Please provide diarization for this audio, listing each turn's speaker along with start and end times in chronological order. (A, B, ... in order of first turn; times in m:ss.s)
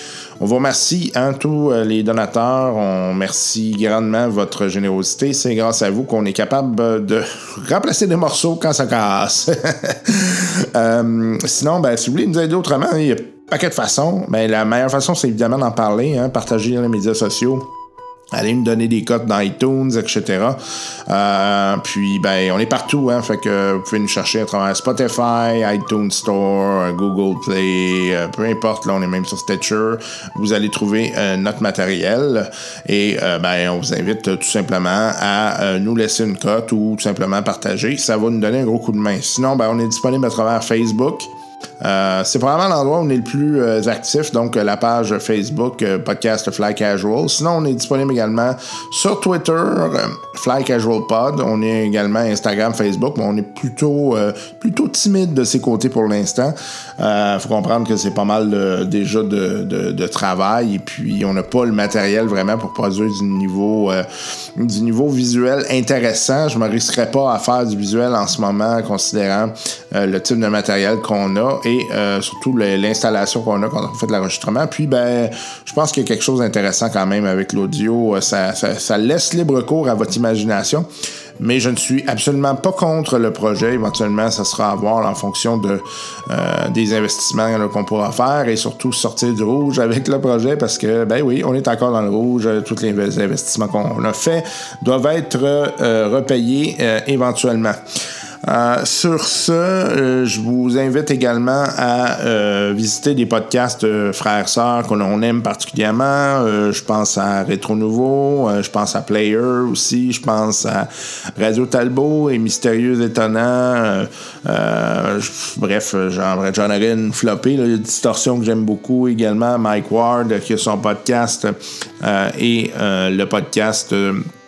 0:00.4-0:17.7 A
0:18.3-1:20.9 A
1:21.4-1:37.8 A
1:38.4-2:04.3 A